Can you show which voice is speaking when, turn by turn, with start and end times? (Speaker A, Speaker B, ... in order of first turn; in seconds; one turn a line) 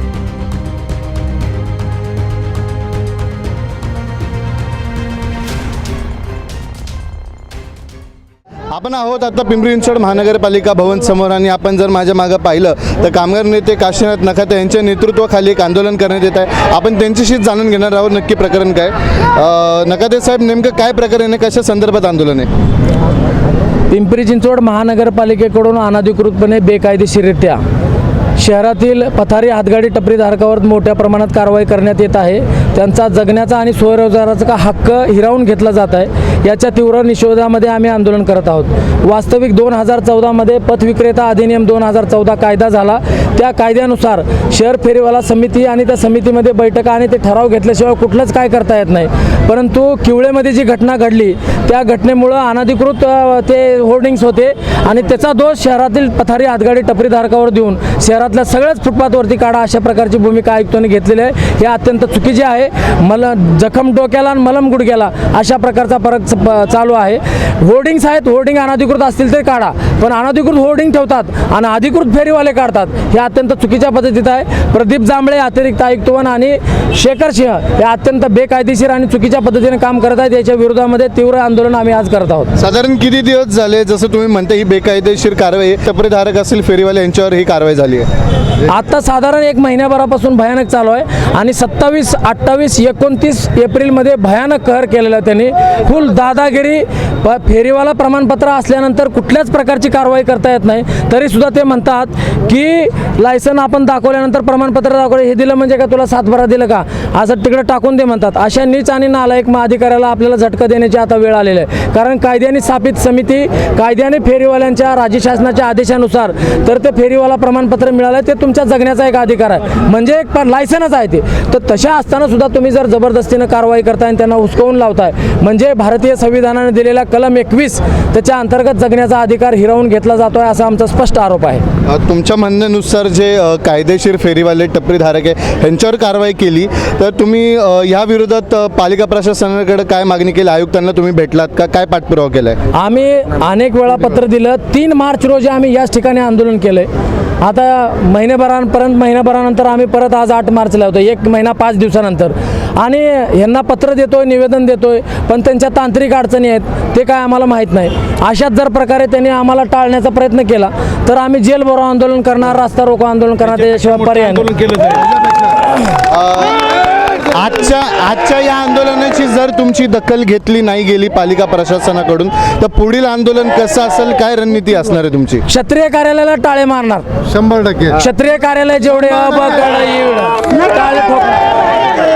Speaker A: 8.7-22.5
Speaker B: 23.9-27.6
Speaker B: 28.4-82.5
Speaker A: 82.6-88.1
Speaker B: 88.7-131.6
Speaker A: 131.9-142.6
Speaker B: 142.7-146.9
Speaker B: 147.4-165.0
Speaker A: 166.1-166.7
Speaker A: 167.2-175.4
Speaker B: 175.5-177.1
Speaker A: 177.3-178.0
Speaker B: 177.9-181.5